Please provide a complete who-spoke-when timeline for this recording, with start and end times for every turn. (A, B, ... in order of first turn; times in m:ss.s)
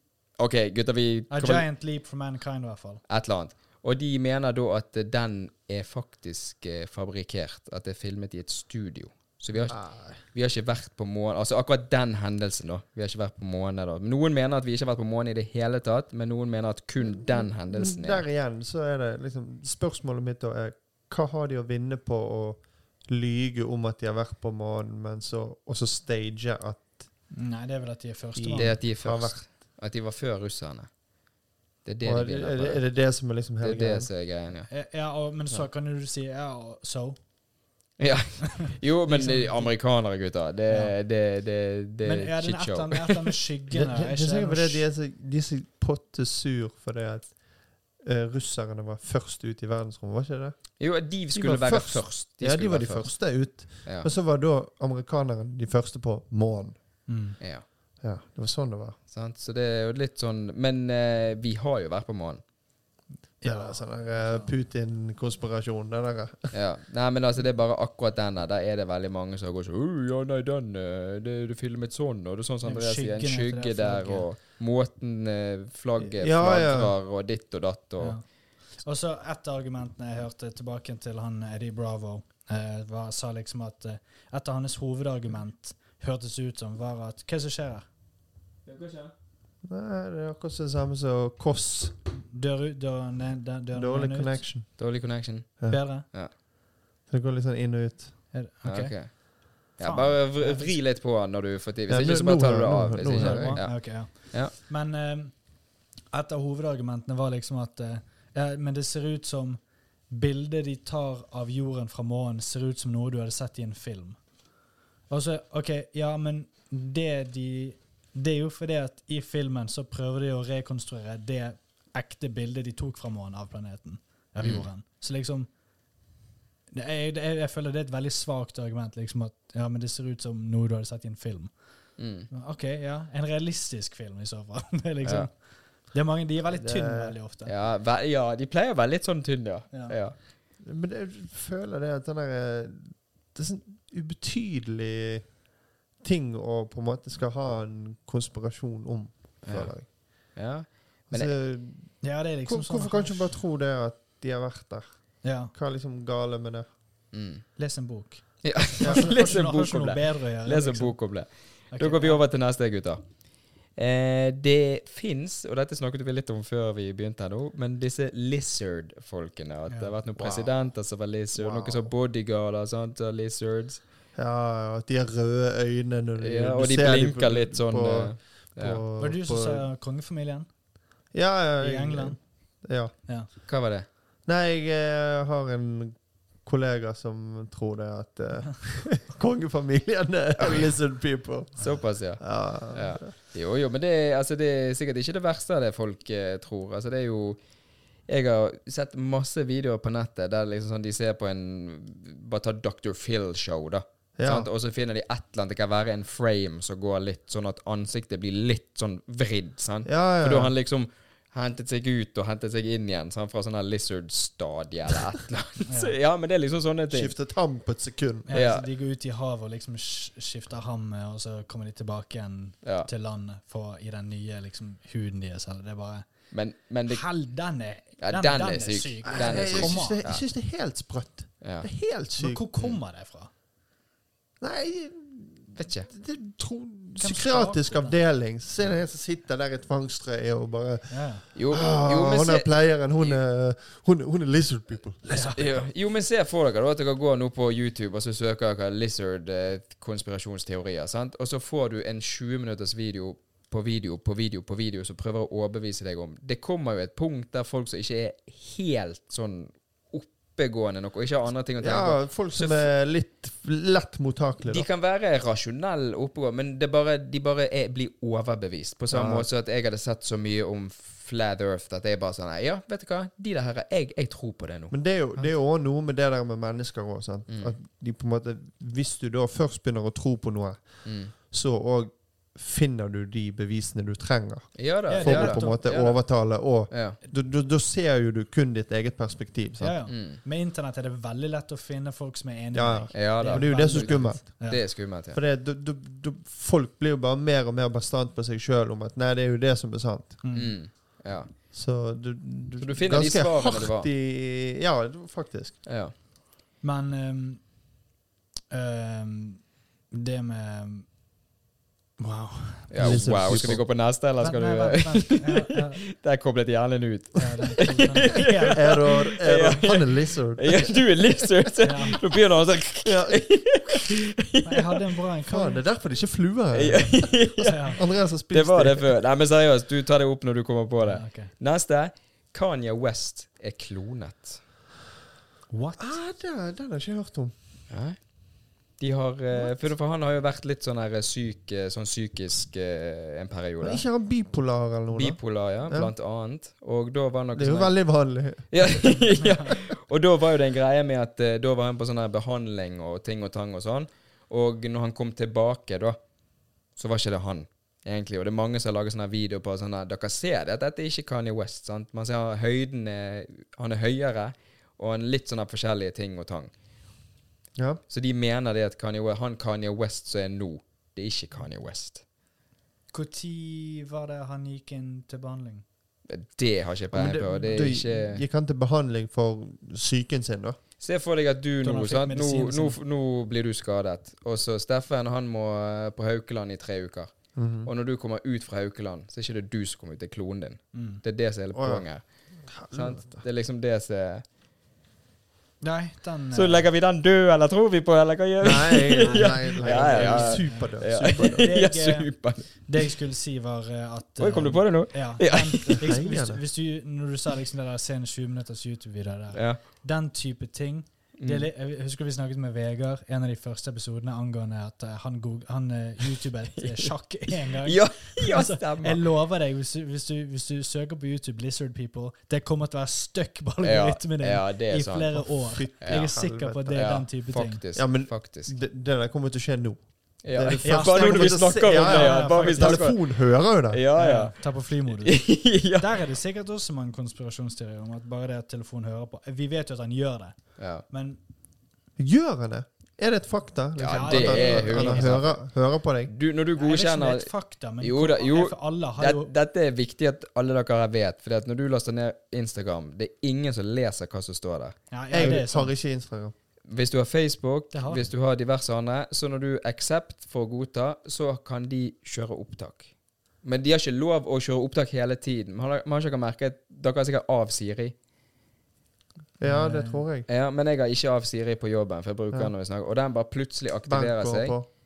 0:00.4-0:01.6 A
0:01.3-0:03.0 B
0:03.1-0:18.2 A
0:09.7-0:10.2 C
0:17.0-0:27.0 C
0:27.3-0:28.8 B
0:28.4-0:29.4 C
0:28.6-0:30.9 A
0:31.8-0:32.8 A
0:32.0-0:34.1 C
0:33.6-0:34.7 A
0:34.7-0:37.2 B
0:38.0-0:43.3 A
0:39.1-0:39.7 B
0:40.7-0:40.9 B
0:42.0-0:44.8 B
0:43.7-0:47.4 C
0:48.0-0:50.6 C
0:50.8-0:53.1 A
0:51.3-0:56.8 C
0:57.1-0:57.4 B
0:57.4-0:57.6 A
0:58.0-0:59.0 C
0:59.1-1:02.4 A
1:03.4-1:04.5 B
1:03.4-1:06.5 C
1:06.5-1:18.2 A
1:12.6-1:14.3 B
1:16.0-1:16.9 C
1:18.8-1:27.8 B
1:28.7-1:29.1 A
1:29.7-1:32.0 C
1:32.3-1:34.4 B
1:33.8-1:34.7 C
1:34.8-1:36.3 A
1:35.7-1:36.1 B
1:37.1-1:38.1 C
1:38.3-1:39.1 B
1:38.6-1:44.5 A
1:39.8-1:40.8 B
1:41.9-1:43.6 C
1:43.1-1:45.3 B
1:46.1-1:54.2 B
1:55.1-2:05.5 B
2:04.4-2:04.7 A
2:06.7-2:11.5 B
2:12.0-2:12.3 A
2:12.3-2:15.3 B
2:15.0-2:15.3 A
2:15.9-2:17.5 B
2:16.5-2:17.1 C
2:17.5-2:20.2 A
2:20.6-2:25.2 C
2:26.0-2:29.9 C
2:29.4-2:29.7 A
2:30.3-2:31.3 A
2:31.1-2:34.9 C
2:32.0-2:33.4 B
2:35.2-2:35.5 B
2:35.5-2:36.7 C
2:37.1-2:37.4 A
2:37.6-2:41.0 B
2:38.4-2:43.0 A
2:41.7-2:42.2 B
2:43.8-2:53.8 A
2:50.2-2:50.5 C
2:51.4-2:51.9 C
2:54.2-2:59.6 C
2:56.2-2:58.8 A
2:59.0-3:00.5 B
3:01.1-3:02.9 C
3:01.6-3:02.2 B
3:03.5-3:03.9 A
3:04.3-3:13.1 C
3:11.6-3:17.4 A
3:18.1-3:37.1 A
3:24.2-3:24.5 C
3:29.9-3:30.5 C
3:35.7-3:36.0 B
3:36.9-3:38.3 C
3:38.3-3:46.1 B
3:38.3-3:38.7 A
3:42.6-3:42.9 A
3:46.3-3:47.0 A
3:46.9-3:50.0 B
3:48.0-3:50.2 A
3:49.1-3:52.4 C
3:51.4-3:51.7 A
3:52.2-3:53.3 B
3:54.4-4:05.5 C
3:55.6-3:55.9 A
3:57.0-3:58.0 B
4:00.9-4:01.2 B
4:01.3-4:03.2 A
4:05.1-4:05.4 B
4:05.3-4:22.7 A
4:21.6-4:24.7 C
4:24.4-4:34.7 A
4:28.9-4:29.3 C
4:34.7-4:49.8 C
4:37.3-4:37.5 A
4:40.8-4:41.1 A
4:44.6-4:46.0 A
4:44.9-4:45.9 B
4:46.7-4:47.0 A
4:49.6-4:54.6 B
4:49.9-4:50.2 A
4:52.5-4:54.5 C
4:52.9-4:55.2 A
4:55.1-5:00.2 C
5:00.2-5:00.6 B
5:00.3-5:01.3 A
5:01.5-5:05.6 C
5:02.6-5:03.9 A
5:05.6-5:05.9 A
5:06.6-5:07.4 B
5:08.5-5:10.9 B
5:12.0-5:13.6 B
5:12.7-5:24.8 A
5:12.8-5:13.6 C
5:14.2-5:15.8 B
5:17.2-5:18.8 B
5:18.5-5:20.8 C
5:21.6-5:22.0 B
5:22.8-5:23.3 C
5:24.4-5:25.6 B
5:25.3-5:28.9 C
5:26.5-5:34.4 A
5:27.4-5:27.8 B
5:30.8-5:31.3 B
5:35.5-5:35.9 B
5:35.8-5:37.3 C
5:37.7-5:38.0 A
5:38.8-5:43.8 A
5:43.6-5:45.9 C
5:44.9-5:47.8 A
5:47.4-5:49.0 C
5:48.5-5:56.0 A
5:56.8-6:06.5 A
6:07.9-6:12.0 A
6:12.9-6:15.6 B
6:16.1-6:18.2 A
6:16.9-6:20.6 C
6:20.8-6:27.1 A
6:21.6-6:22.8 B
6:27.4-6:27.7 C
6:27.6-6:32.0 A
6:30.7-6:31.0 B
6:31.5-6:31.8 C
6:32.5-6:33.2 C
6:32.7-6:34.2 A
6:35.6-6:36.7 B
6:36.3-6:42.8 A
6:38.4-6:41.5 C
6:39.6-7:07.6 B
6:44.2-6:45.9 A
6:45.8-6:46.4 C
6:49.3-6:49.6 A
6:51.2-6:51.5 A
6:56.6-6:59.0 A
7:03.6-7:06.1 A
7:05.4-7:06.9 C
7:06.7-7:08.5 A
7:07.8-7:13.8 C
7:10.2-7:13.0 A
7:10.6-7:12.9 B
7:13.7-7:14.4 A
7:14.0-7:21.2 B
7:14.9-7:15.9 A
7:20.6-7:20.8 A
7:22.0-7:26.1 C
7:23.8-7:25.4 A
7:23.9-7:25.2 B
7:26.1-7:35.4 A
7:26.6-7:29.3 B
7:34.9-7:35.7 B
7:35.1-7:36.3 C
7:36.7-7:42.9 A
7:37.7-7:38.1 B
7:43.4-7:48.0 A
7:49.4-7:50.3 C
7:49.4-7:50.0 B
7:50.3-7:54.6 A
7:53.9-7:54.7 C